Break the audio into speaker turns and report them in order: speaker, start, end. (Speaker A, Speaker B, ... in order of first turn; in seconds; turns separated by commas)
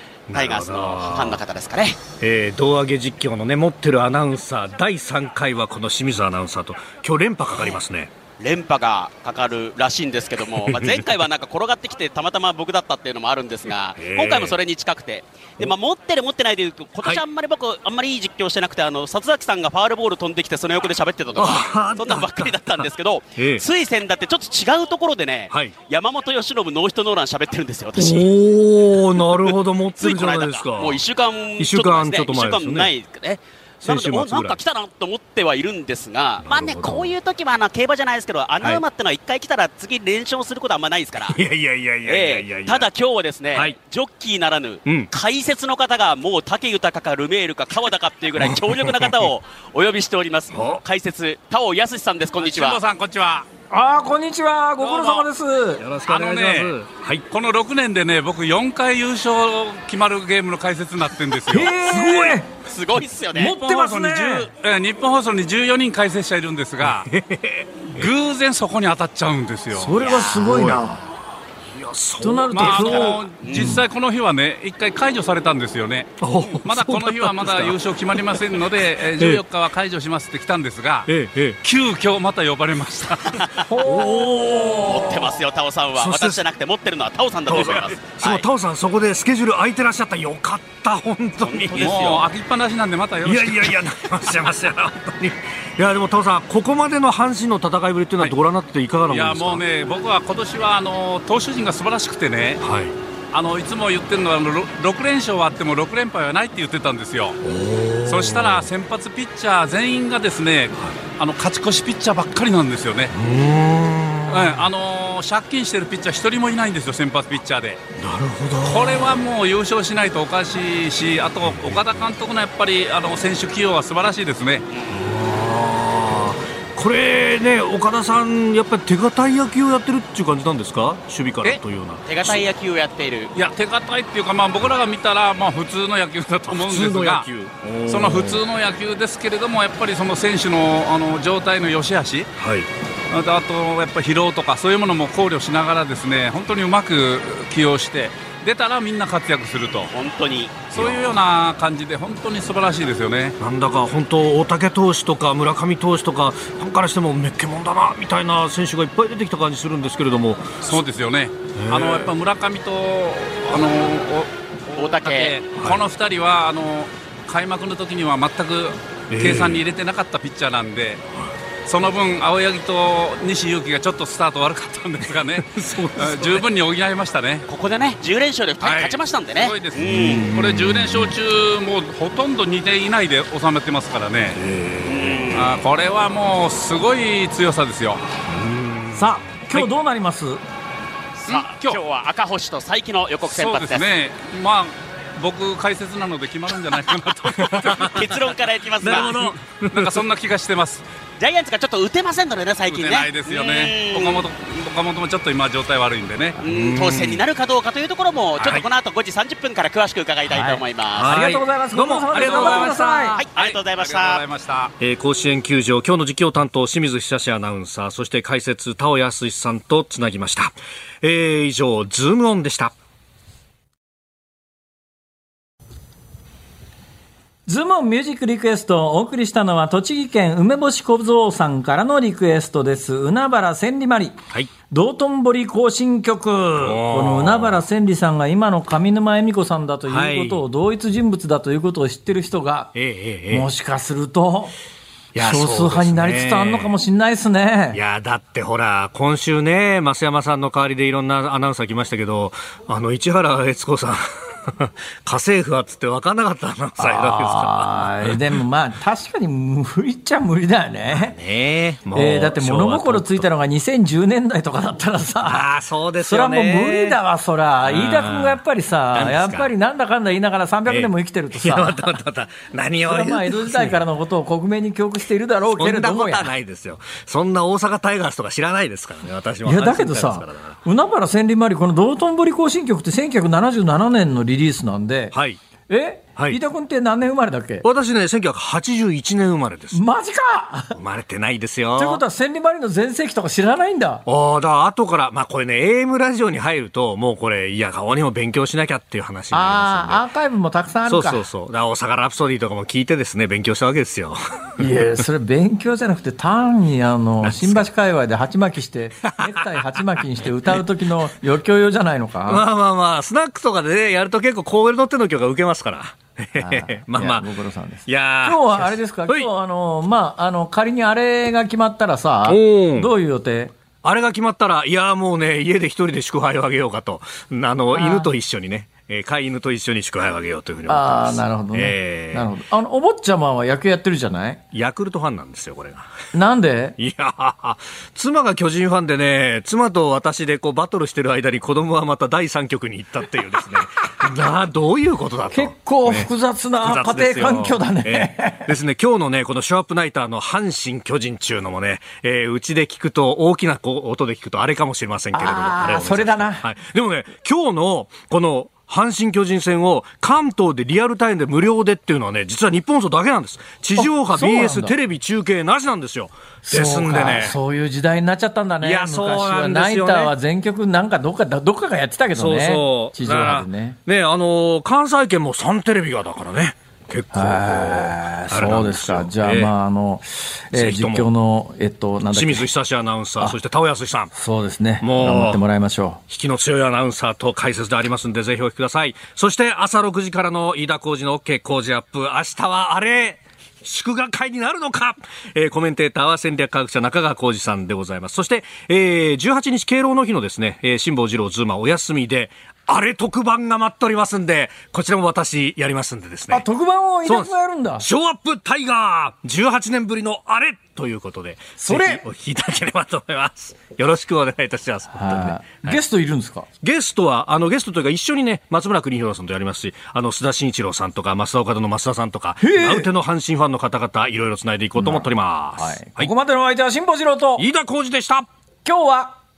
Speaker A: 0.3-1.4, Speaker B: 0.3-2.0, Speaker A: 2.2-8.1, Speaker B: 8.4-28.3, Speaker A: 10.6-11.2, Speaker A: 14.0-14.6, Speaker A: 21.3-23.6, Speaker A: 25.5-25.8, Speaker A: 27.9-31.0, Speaker B: 29.5-41.4, Speaker A: 31.6-32.9, Speaker A: 33.8-34.6, Speaker A: 36.4-37.1, Speaker A: 41.2-42.9, Speaker B: 42.0-52.8, Speaker A: 44.8-45.1, Speaker A: 48.4-49.3, Speaker A: 50.5-50.8, Speaker C: 52.4-53.5, Speaker D: 53.7-55.8, Speaker C: 54.8-55.2, Speaker A: 55.8-57.2, Speaker C: 56.0-56.7, Speaker C: 57.3-62.1, Speaker D: 61.5-62.5, Speaker A: 62.0-62.4, Speaker B: 62.6-63.6, Speaker D: 63.3-64.5, Speaker C: 63.4-67.1, Speaker A: 66.8-68.1, Speaker C: 67.9-70.2, Speaker D: 69.7-71.0, Speaker A: 70.2-70.8, Speaker A: 71.7-73.2, Speaker D: 72.2-73.8, Speaker C: 72.5-81.1, Speaker B: 73.4-73.7, Speaker A: 76.2-77.8, Speaker A: 81.1-81.6, Speaker C: 81.6-83.6, Speaker D: 83.6-84.9, Speaker A: 83.8-85.4, Speaker B: 84.7-88.4, Speaker A: 85.9-86.4, Speaker A: 87.5-92.0, Speaker B: 91.4-92.3, Speaker C: 91.7-93.8, Speaker A: 93.2-99.6, Speaker C: 99.1-102.6, Speaker A: 102.6-103.0, Speaker C: 103.3-107.4, Speaker A: 107.4-108.7, Speaker C: 108.0-113.1, Speaker A: 113.1-114.7, Speaker C: 114.3-117.8, Speaker A: 118.0-119.2, Speaker C: 118.6-124.7, Speaker A: 121.5-121.9, Speaker A: 124.9-132.4, Speaker B: 132.1-133.3, Speaker C: 133.3-137.2, Speaker A: 136.5-138.4, Speaker C: 137.9-142.3, Speaker A: 142.4-142.7, Speaker C: 143.1-149.9, Speaker B: 149.9-150.6, Speaker C: 150.7-153.3, Speaker A: 150.7-151.1, Speaker A: 153.4-160.8, Speaker C: 160.6-171.0, Speaker A: 161.5-162.1, Speaker B: 164.8-165.3, Speaker A: 165.6-165.8, Speaker A: 169.1-169.6, Speaker C: 171.6-177.5, Speaker A: 175.5-176.4, Speaker B: 177.5-180.3, Speaker C: 178.6-184.4, Speaker A: 179.8-181.2, Speaker A: 184.3-185.5, Speaker B: 184.8-185.6, Speaker C: 185.3-188.0, Speaker A: 188.3-189.7, Speaker D: 188.9-190.4, Speaker B: 191.2-193.9, Speaker C: 191.2-191.8, Speaker C: 193.2-198.2, Speaker A: 197.3-198.1, Speaker B: 197.5-199.1, Speaker A: 198.8-200.0, Speaker C: 198.8-200.8, Speaker B: 201.2-204.3, Speaker C: 202.7-206.4, Speaker B: 206.4-211.2, Speaker A: 206.4-207.2, Speaker A: 208.4-208.6, Speaker D: 210.3-213.2, Speaker A: 210.9-213.2, Speaker C: 212.1-214.7, Speaker B: 213.2-214.2, Speaker A: 214.8-222.7, Speaker D: 227.5-234.2, Speaker D: 234.7-242.7, Speaker A: 236.6-237.6, Speaker A: 239.9-240.4, Speaker A: 242.7-243.5, Speaker D: 243.3-244.6, Speaker A: 245.1-246.7, Speaker D: 245.2-247.8, Speaker A: 247.7-258.2, Speaker D: 256.8-261.2, Speaker A: 260.9-263.3, Speaker D: 261.9-265.5, Speaker A: 265.2-267.0, Speaker D: 266.0-271.9, Speaker A: 267.6-268.4, Speaker A: 268.9-269.5, Speaker A: 270.7-273.8, Speaker D: 272.9-276.3, Speaker A: 275.5-280.6, Speaker D: 279.4-285.1, Speaker A: 285.1-285.4, Speaker D: 285.7-287.6, Speaker A: 287.6-289.8, Speaker D: 289.7-290.8, Speaker A: 290.7-292.0, Speaker D: 291.8-294.0, Speaker A: 294.1-300.0, Speaker D: 299.3-301.2, Speaker A: 300.9-304.7, Speaker D: 304.6-312.4, Speaker A: 307.2-307.7, Speaker A: 309.0-310.0, Speaker A: 312.3-317.3, Speaker D: 316.4-323.5, Speaker A: 317.9-319.3, Speaker A: 322.2-322.9, Speaker A: 323.8-332.3, Speaker D: 327.7-328.1, Speaker D: 330.7-334.4, Speaker A: 334.5-335.9, Speaker D: 336.1-336.8, Speaker A: 336.8-346.1, Speaker D: 345.3-348.5, Speaker A: 346.6-367.4, Speaker D: 355.1-356.4, Speaker D: 363.8-364.7, Speaker D: 366.4-373.8, Speaker A: 368.6-370.1, Speaker A: 372.1-379.5, Speaker D: 377.1-382.5, Speaker A: 380.5-381.1, Speaker A: 382.1-384.1, Speaker D: 384.1-386.0, Speaker A: 384.8-385.4, Speaker A: 386.1-406.4, Speaker D: 406.3-407.9, Speaker A: 407.0-415.8, Speaker D: 411.6-412.0, Speaker D: 414.9-416.5, Speaker A: 416.6-426.1, Speaker D: 422.4-422.9, Speaker D: 424.8-427.5, Speaker A: 427.4-428.3, Speaker D: 428.6-429.2